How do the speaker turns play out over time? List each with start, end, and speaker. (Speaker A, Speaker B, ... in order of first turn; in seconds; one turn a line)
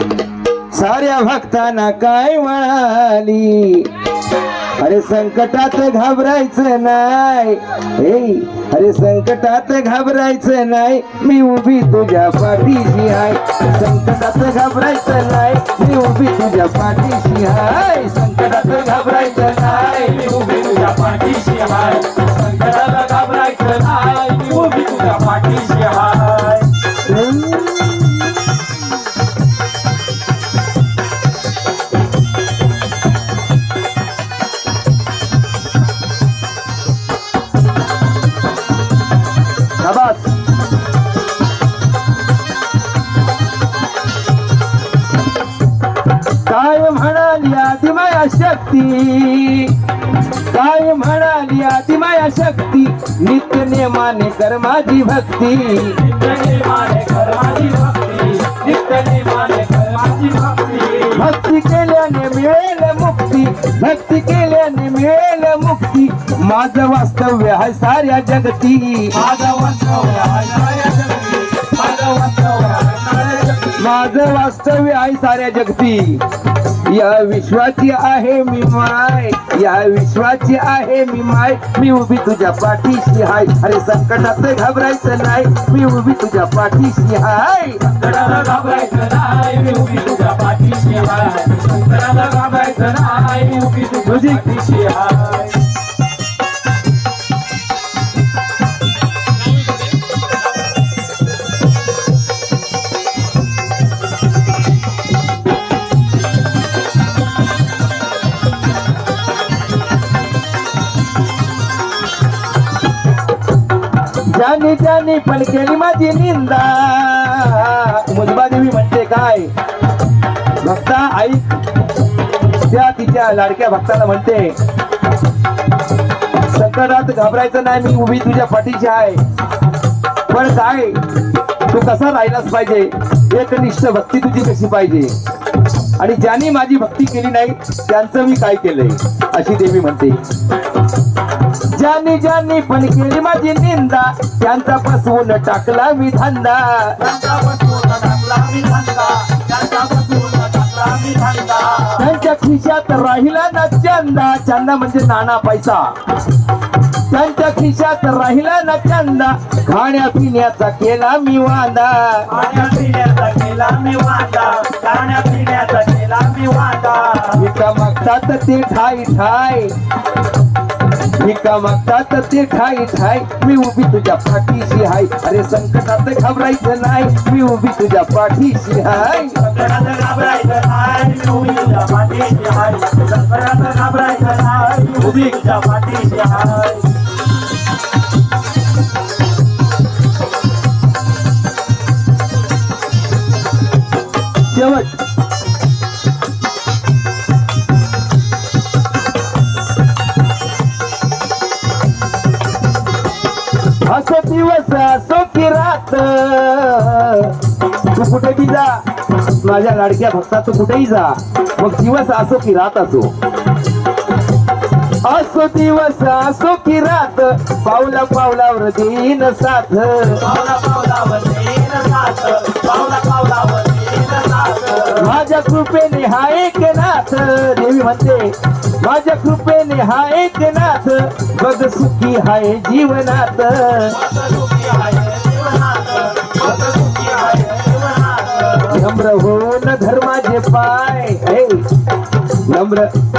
Speaker A: 0.7-3.9
Speaker A: 4.8-20.2
Speaker B: 19.0-26.7
Speaker A: 27.2-27.5
Speaker A: 39.8-40.3
Speaker A: 46.5-49.8
Speaker A: 50.5-56.0
Speaker B: 55.8-61.2
Speaker A: 61.1-69.2
Speaker B: 69.1-73.8
Speaker A: 73.7-87.8
Speaker B: 87.8-95.6
Speaker A: 94.0-94.5
Speaker A: 114.3-119.5
Speaker A: 120.6-121.6
Speaker A: 122.6-124.6
Speaker A: 126.4-129.2
Speaker A: 130.3-131.0
Speaker A: 131.7-135.1
Speaker A: 136.0-140.2
Speaker A: 141.7-147.0
Speaker B: 147.0-152.0
Speaker A: 151.9-155.9
Speaker A: 157.1-162.3
Speaker B: 162.3-167.4
Speaker A: 167.3-169.7
Speaker A: 171.2-179.4
Speaker B: 179.3-186.9
Speaker A: 194.5-195.0
Speaker A: 203.8-213.1
Speaker A: 215.0-220.2
Speaker B: 220.2-225.1
Speaker A: 224.9-234.0
Speaker B: 233.9-238.8
Speaker A: 238.6-241.7
Speaker A: 242.4-242.9